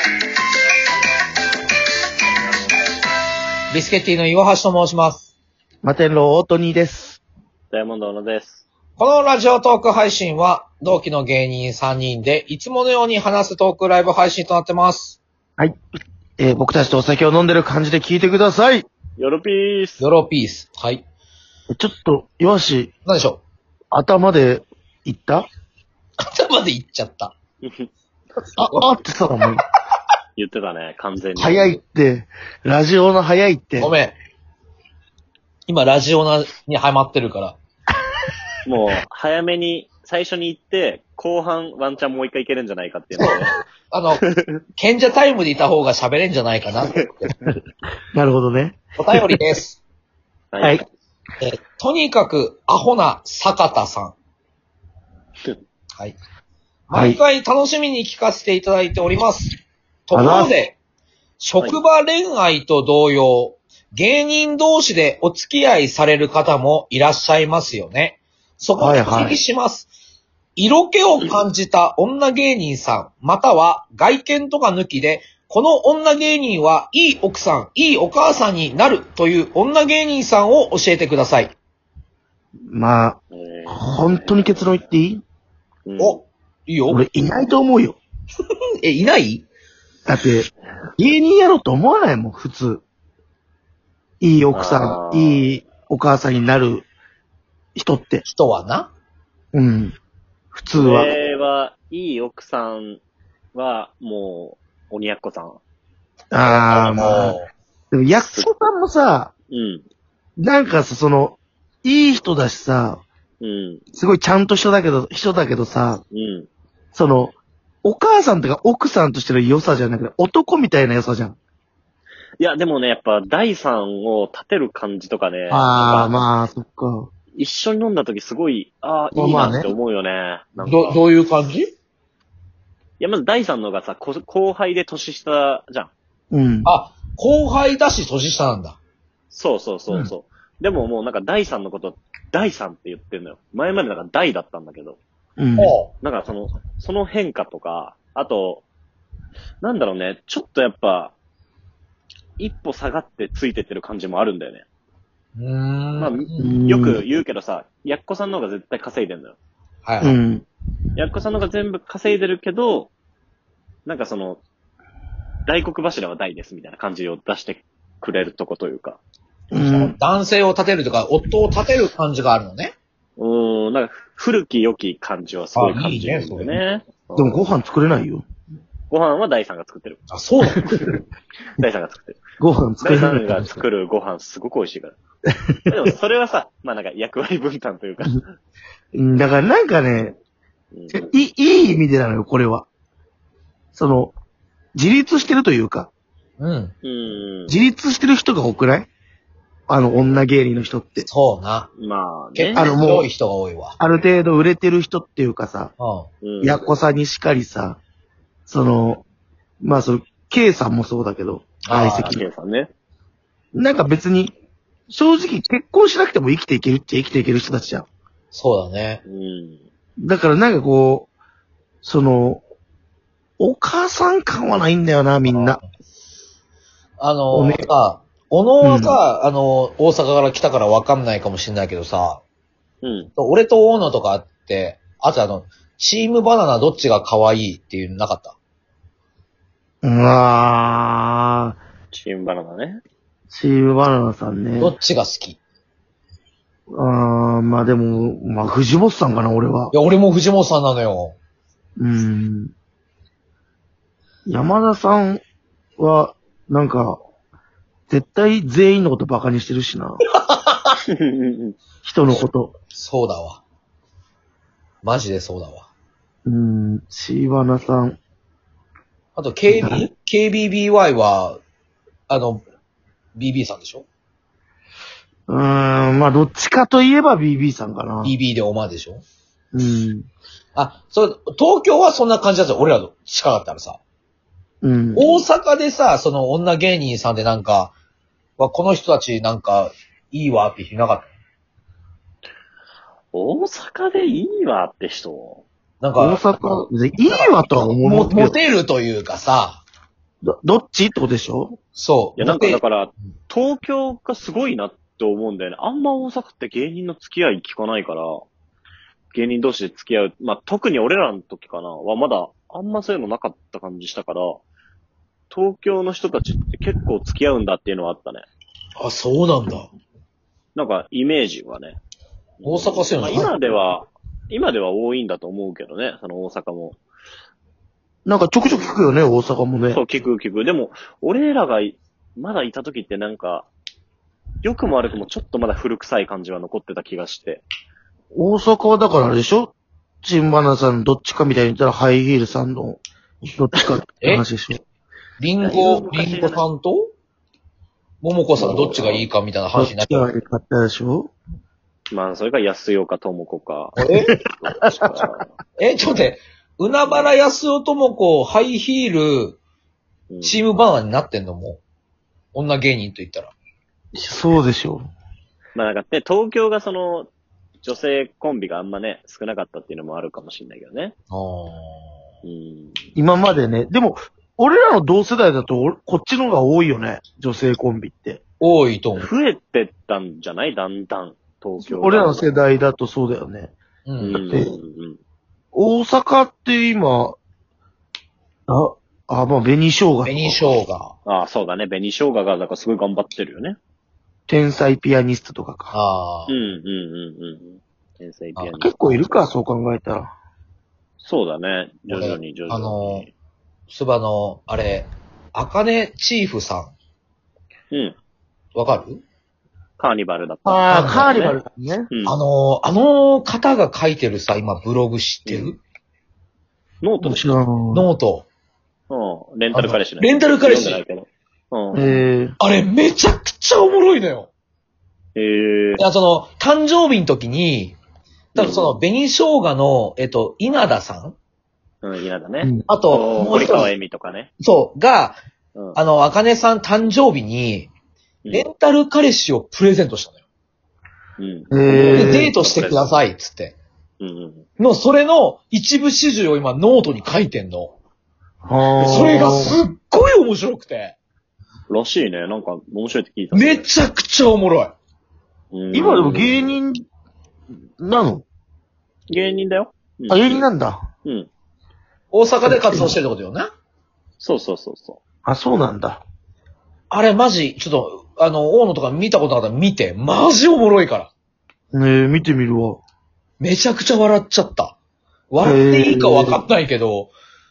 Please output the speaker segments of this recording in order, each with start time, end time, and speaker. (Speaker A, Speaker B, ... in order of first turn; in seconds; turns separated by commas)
Speaker A: 3.7-5.3, Speaker B: 5.8-7.2, Speaker C: 7.7-8.7, Speaker A: 9.0-15.2, Speaker B: 16.4-18.9, Speaker C: 19.2-20.1, Speaker A: 20.0-21.0, Speaker B: 21.7-22.9, Speaker A: 23.1-23.4, Speaker B: 23.9-25.5, Speaker A: 26.2-27.3, Speaker C: 27.6-27.9, Speaker A: 28.4-28.9, Speaker B: 28.6-29.6, Speaker C: 30.4-31.8, Speaker B: 31.4-33.9, Speaker A: 33.8-34.1, Speaker A: 35.7-37.6, Speaker C: 38.6-43.6, Speaker A: 43.9-44.2, Speaker C: 44.2-44.5, Speaker A: 44.8-47.1, Speaker B: 48.1-49.4, Speaker A: 49.0-49.8, Speaker C: 50.5-50.8, Speaker A: 51.4-54.2, Speaker A: 56.9-59.5, Speaker B: 56.9-57.2, Speaker A: 60.1-60.8, Speaker B: 60.1-60.5, Speaker A: 61.4-69.9, Speaker B: 68.8-69.4, Speaker A: 70.6-81.5, Speaker B: 82.7-85.2, Speaker C: 83.3-84.7, Speaker C: 85.9-86.2, Speaker A: 86.0-87.1, Speaker B: 86.9-88.0, Speaker A: 88.8-89.5, Speaker B: 90.1-92.8, Speaker B: 94.2-96.9, Speaker C: 94.5-95.5, Speaker B: 97.8-98.2, Speaker A: 98.3-98.9, Speaker B: 99.5-100.0, Speaker B: 100.5-101.1, Speaker C: 100.8-103.0, Speaker C: 103.5-105.6, Speaker B: 106.3-107.4, Speaker A: 106.4-107.5, Speaker B: 107.9-109.3, Speaker C: 108.2-108.5, Speaker C: 109.5-109.8, Speaker B: 110.4-113.0, Speaker C: 113.4-113.8, Speaker B: 113.9-116.0, Speaker C: 116.1-116.5, Speaker B: 116.9-121.4, Speaker C: 122.4-126.3, Speaker B: 125.5-127.1, Speaker C: 127.3-131.0, Speaker B: 129.1-129.8, Speaker A: 130.6-131.7, Speaker C: 133.0-135.9, Speaker B: 136.3-136.7, Speaker A: 136.7-138.8, Speaker C: 139.3-145.0, Speaker B: 145.4-145.8, Speaker A: 145.6-145.9, Speaker C: 146.0-148.6, Speaker C: 149.6-151.2, Speaker C: 152.4-154.7, Speaker A: 155.4-156.5, Speaker C: 156.0-159.4, Speaker B: 156.4-157.0, Speaker A: 159.8-160.2, Speaker B: 160.0-160.5, Speaker C: 161.0-162.9, Speaker C: 163.9-164.4, Speaker C: 165.5-169.0, Speaker B: 169.5-170.0, Speaker A: 169.6-172.7, Speaker C: 173.2-177.5, Speaker A: 175.5-176.6, Speaker B: 177.2-178.2, Speaker C: 178.9-180.0, Speaker A: 180.1-180.7, Speaker C: 180.6-181.0, Speaker C: 181.6-182.2, Speaker B: 182.4-183.6, Speaker C: 182.8-185.0, Speaker B: 185.5-185.8, Speaker C: 185.7-188.2, Speaker B: 188.9-190.2, Speaker C: 190.7-191.1, Speaker B: 190.9-192.7, Speaker B: 193.8-194.1, Speaker B: 194.8-195.9, Speaker A: 196.4-196.7, Speaker C: 196.8-197.6, Speaker B: 197.5-198.9, Speaker B: 199.7-201.1, Speaker A: 201.0-201.7, Speaker C: 201.8-202.7, Speaker A: 202.3-203.8, Speaker B: 202.5-203.1, Speaker B: 203.8-205.7, Speaker A: 205.8-206.1, Speaker C: 206.2-206.7, Speaker B: 206.4-207.8, Speaker B: 208.5-209.0, Speaker B: 209.6-212.2, Speaker A: 211.7-212.2, Speaker C: 211.8-212.7, Speaker B: 213.5-214.3, Speaker B: 214.9-217.9, Speaker A: 218.3-219.0, Speaker C: 219.1-219.6, Speaker B: 220.0-221.1, Speaker B: 221.8-222.4, Speaker B: 223.4-225.6, Speaker A: 225.3-225.7, Speaker A: 227.0-232.2, Speaker B: 227.3-227.7, Speaker B: 228.6-229.0, Speaker C: 232.8-233.1, Speaker A: 233.2-238.4, Speaker B: 239.8-241.6, Speaker C: 241.9-242.8, Speaker B: 243.3-244.8, Speaker A: 244.6-245.4, Speaker B: 246.7-249.7, Speaker A: 249.7-251.2, Speaker B: 251.8-252.5, Speaker B: 254.3-255.2, Speaker B: 255.8-257.0, Speaker B: 257.9-260.0, Speaker A: 260.3-260.7, Speaker C: 261.0-261.5, Speaker B: 261.9-262.5, Speaker A: 262.7-263.4, Speaker A: 264.8-265.7, Speaker B: 266.3-268.0, Speaker A: 269.2-271.4, Speaker B: 269.5-269.8, Speaker A: 272.1-272.4, Speaker A: 273.2-273.9, Speaker B: 275.3-278.1, Speaker A: 278.0-279.0, Speaker B: 279.5-280.1, Speaker A: 280.6-283.8, Speaker B: 284.6-285.0, Speaker A: 284.9-287.7, Speaker C: 285.0-285.2, Speaker A: 288.4-291.1, Speaker C: 293.1-295.4, Speaker A: 295.8-296.2, Speaker B: 296.0-298.4, Speaker A: 297.1-299.6, Speaker B: 300.2-301.6, Speaker A: 301.8-302.6, Speaker C: 302.2-308.2, Speaker C: 309.1-314.4, Speaker C: 315.3-318.3, Speaker A: 318.8-319.7, Speaker C: 320.6-321.8, Speaker C: 322.4-326.8, Speaker A: 322.4-323.3, Speaker B: 328.1-329.8, Speaker C: 328.4-328.9, Speaker C: 329.7-333.5, Speaker C: 334.4-337.4, Speaker B: 338.1-344.6, Speaker A: 345.2-346.9, Speaker C: 345.4-346.4, Speaker A: 348.0-350.1, Speaker C: 348.4-349.1, Speaker B: 349.6-351.1, Speaker C: 351.9-355.3, Speaker A: 353.8-354.1, Speaker B: 354.0-354.9, Speaker A: 355.6-359.4, Speaker C: 356.9-357.1, Speaker C: 360.1-360.4, Speaker A: 360.2-361.6, Speaker A: 362.3-363.3, Speaker B: 363.9-364.9, Speaker C: 365.6-367.1, Speaker C: 367.6-370.9, Speaker A: 371.1-371.9, Speaker C: 372.2-372.8, Speaker B: 373.0-378.2, Speaker A: 378.4-379.1, Speaker C: 378.9-382.2, Speaker B: 381.6-383.5, Speaker A: 383.9-384.2, Speaker C: 384.0-385.0, Speaker B: 384.3-384.6, Speaker B: 385.5-387.2, Speaker B: 388.5-390.5, Speaker A: 390.1-390.9, Speaker C: 391.1-393.6, Speaker B: 394.3-395.7, Speaker A: 395.7-396.4, Speaker C: 396.3-399.1, Speaker B: 398.6-400.1, Speaker C: 401.0-403.1, Speaker A: 401.9-403.1, Speaker A: 403.7-406.7, Speaker C: 407.7-408.0, Speaker A: 408.6-409.0, Speaker C: 409.8-411.4, Speaker B: 410.5-411.9, Speaker A: 410.7-411.2, Speaker C: 411.9-412.2, Speaker A: 412.1-415.6, Speaker C: 415.3-415.6, Speaker C: 416.8-417.3, Speaker B: 417.0-417.9, Speaker A: 417.7-418.3, Speaker C: 418.9-422.0, Speaker A: 419.5-420.8, Speaker B: 421.7-422.4, Speaker A: 422.4-424.3, Speaker C: 425.2-425.8, Speaker A: 425.8-427.8, Speaker A: 428.3-431.2, Speaker C: 428.4-428.8, Speaker C: 431.8-434.3, Speaker B: 432.4-433.7, Speaker A: 432.7-433.7, Speaker A: 434.4-435.2, Speaker A: 435.8-437.7, Speaker A: 438.3-440.2, Speaker C: 441.2-443.0, Speaker B: 441.5-442.3, Speaker A: 441.9-443.6, Speaker C: 444.0-444.5, Speaker A: 444.6-447.8, Speaker B: 448.4-449.6, Speaker C: 448.8-449.2, Speaker A: 448.8-451.0, Speaker C: 451.7-453.7, Speaker A: 453.3-454.7, Speaker C: 455.5-456.6, Speaker B: 455.7-456.8, Speaker B: 457.8-458.2, Speaker C: 459.1-460.5, Speaker B: 460.1-460.9, Speaker A: 462.1-463.5, Speaker B: 462.4-462.9, Speaker C: 464.2-465.0, Speaker B: 465.2-466.0, Speaker A: 466.9-471.1, Speaker B: 471.7-472.8, Speaker A: 473.4-474.8, Speaker A: 475.3-477.1, Speaker B: 475.4-476.4